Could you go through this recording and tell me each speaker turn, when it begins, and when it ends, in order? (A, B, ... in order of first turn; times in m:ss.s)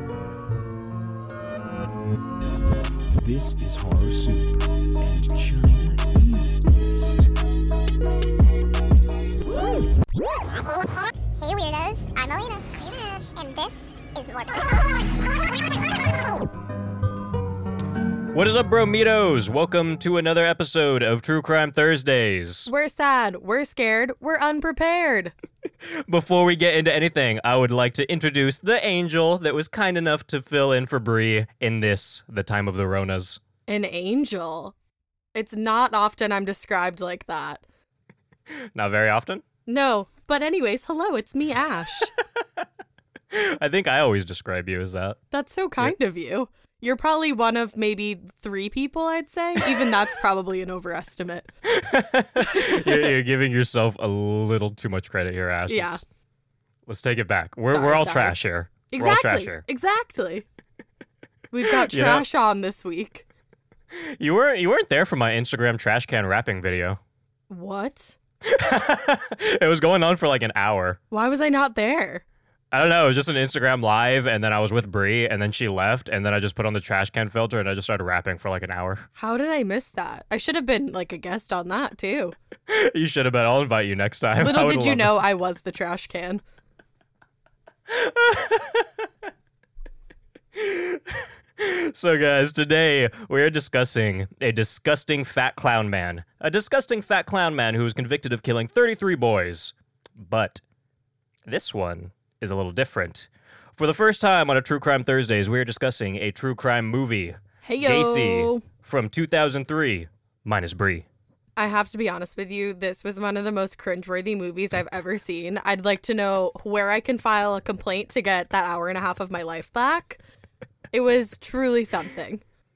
0:03.2-0:07.3 A
0:10.7-0:15.1 B
0:18.3-0:22.7 C
0:22.7-0:25.3 D
0:26.1-0:33.4 C
0:33.7-0:34.8 D
0:35.3-0:37.6 D
0:38.5-0:39.4 C
0:39.7-0:42.1 D
0:42.2-0:42.6 C
0:43.3-0:45.2 C
0:45.3-0:51.5 D
0:51.7-0:56.0 C
0:52.4-0:53.2 D
0:55.7-0:56.0 D
0:56.9-0:59.6 C
0:57.6-0:58.4 D
0:58.9-1:00.5 D
1:01.5-1:03.2 D
1:01.8-1:02.2 C
1:03.9-1:07.0 C
1:07.5-1:08.2 D
1:08.4-1:11.0 C
1:11.1-1:12.2 D
1:12.7-1:19.1 C
1:19.2-1:22.4 D
1:22.7-1:25.2 C
1:24.4-1:26.4 D
1:27.9-1:29.1 C
1:30.6-1:40.6 C
1:41.5-1:51.1 C
1:47.6-1:48.6 D
1:51.6-2:00.2 D
2:00.9-2:02.4 D